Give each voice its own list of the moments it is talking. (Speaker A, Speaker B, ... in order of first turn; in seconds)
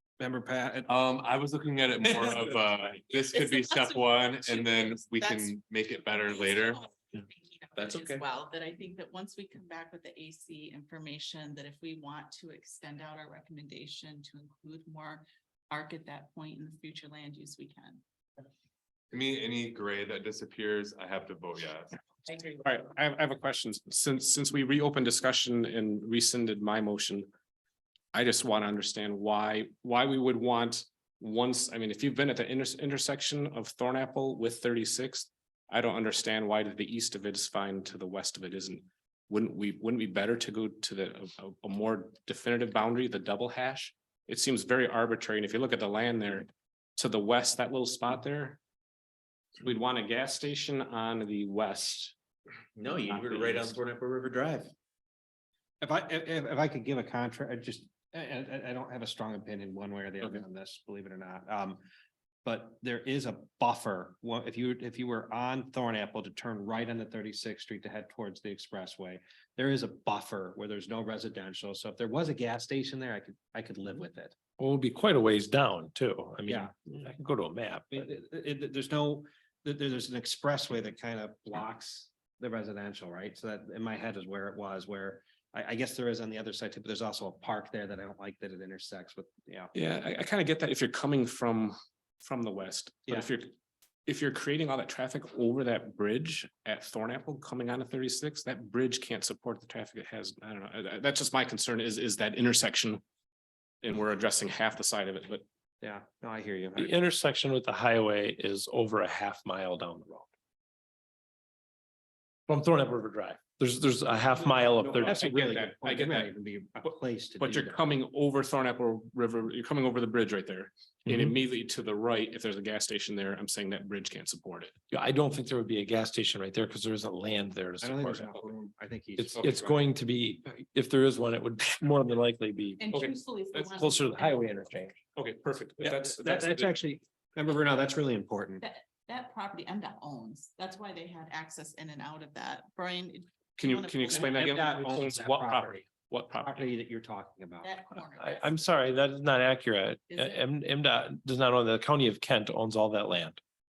Speaker A: 0.2-0.9, 55.8-61.8, 62.4-74.3, 77.9-89.7, 93.1-93.3, 105.8-106.9, 115.0-117.8, 127.8-129.9, 135.8-138.6, 144.1-145.9, 146.4-147.7
Speaker B: 0.9-6.8, 19.1-22.0
Speaker C: 3.3-5.6, 6.2-18.0, 132.8-134.6, 138.6-144.6, 147.6-148.7, 150.1-150.4
Speaker D: 7.8-8.2, 74.6-78.1, 106.8-110.3, 112.5-115.2, 124.9-128.4, 129.2-133.0, 133.7-134.9, 148.2-153.4
Speaker E: 22.4-27.3, 28.1-48.6, 49.6-52.1, 53.1-53.8, 89.7-93.5, 94.0-103.0, 103.8-105.4, 114.3-116.3, 116.8-124.7, 132.9-133.7, 135.1-136.7, 143.6-146.6
Speaker F: 52.8-54.7